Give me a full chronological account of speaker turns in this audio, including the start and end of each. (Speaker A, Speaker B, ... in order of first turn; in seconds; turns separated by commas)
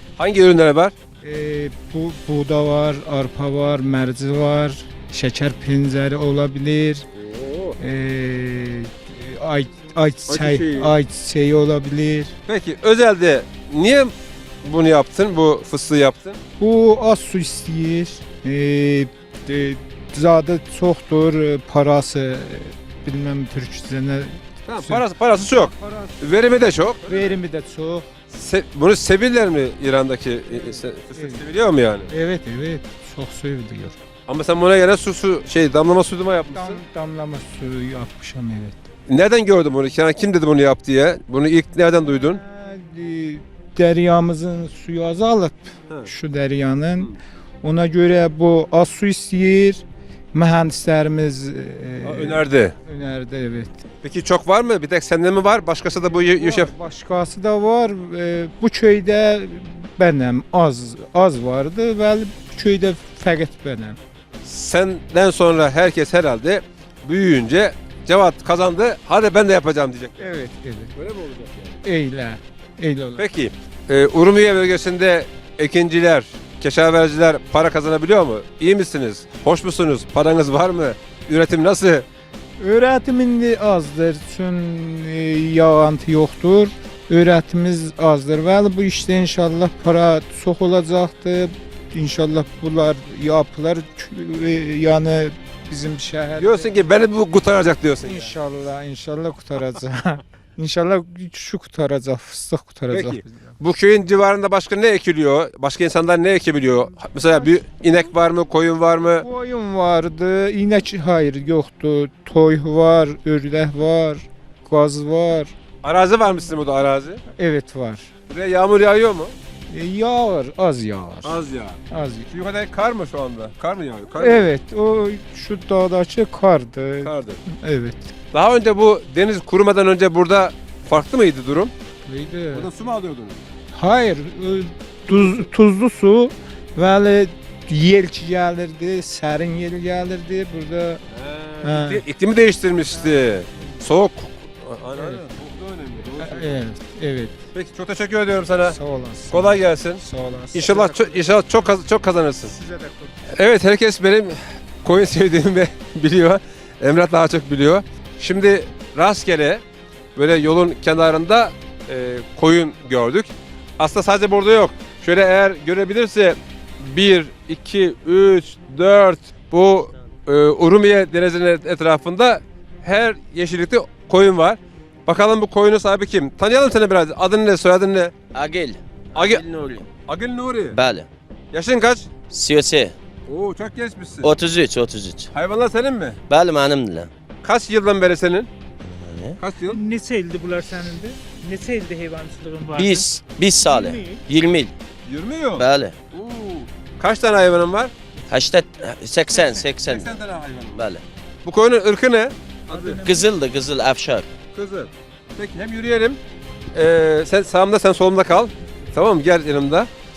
Speaker A: 0.2-0.9, Speaker B: 1.2-7.1, Speaker A: 7.2-7.8, Speaker B: 7.8-12.3, Speaker A: 10.3-10.9, Speaker A: 12.4-16.4, Speaker B: 16.6-26.2, Speaker A: 24.6-27.4, Speaker B: 27.0-28.1, Speaker A: 28.3-32.1, Speaker B: 30.5-31.4, Speaker B: 32.1-34.0, Speaker A: 34.3-36.8, Speaker B: 36.5-38.8, Speaker A: 39.1-42.4, Speaker B: 42.0-53.8, Speaker A: 52.0-52.7, Speaker A: 54.0-56.7, Speaker B: 55.9-64.0, Speaker A: 64.4-70.3, Speaker B: 70.2-70.9, Speaker A: 70.9-71.8, Speaker B: 71.8-73.2, Speaker A: 73.2-82.0, Speaker B: 82.6-96.8, Speaker A: 96.4-98.3, Speaker B: 98.0-103.5, Speaker A: 102.9-109.2, Speaker B: 107.1-108.0, Speaker B: 109.2-115.5, Speaker A: 115.8-117.2, Speaker B: 117.3-118.1, Speaker A: 118.3-119.3, Speaker B: 119.7-121.4, Speaker A: 121.2-124.5, Speaker B: 121.9-122.3, Speaker B: 124.2-128.1, Speaker A: 127.0-127.4, Speaker A: 128.3-131.7, Speaker B: 132.0-132.7, Speaker A: 132.5-133.4, Speaker B: 133.7-141.0, Speaker A: 135.1-135.4, Speaker A: 141.1-146.6, Speaker B: 141.6-142.0, Speaker B: 142.8-143.8, Speaker B: 144.9-145.2, Speaker B: 146.2-147.3, Speaker A: 147.5-148.8, Speaker B: 148.6-151.3, Speaker A: 149.3-150.0, Speaker A: 150.5-152.5, Speaker B: 152.4-153.3, Speaker A: 153.3-159.6, Speaker A: 160.2-178.1, Speaker C: 178.3-179.9, Speaker A: 179.1-179.4, Speaker A: 180.0-180.8, Speaker C: 180.7-181.1, Speaker A: 181.5-182.1, Speaker C: 182.3-182.9, Speaker A: 183.3-184.3, Speaker C: 184.2-185.3, Speaker A: 185.3-186.2, Speaker C: 186.3-187.1, Speaker A: 187.4-188.5, Speaker C: 188.8-189.4, Speaker A: 189.4-189.8, Speaker D: 189.7-193.0, Speaker C: 192.7-194.7, Speaker D: 193.6-194.2, Speaker A: 195.1-197.9, Speaker C: 195.5-196.0, Speaker C: 198.3-200.2, Speaker A: 199.7-200.8, Speaker C: 200.7-201.0, Speaker A: 201.4-203.0, Speaker D: 202.7-203.2, Speaker C: 203.0-204.3, Speaker A: 204.5-206.2, Speaker A: 206.7-209.9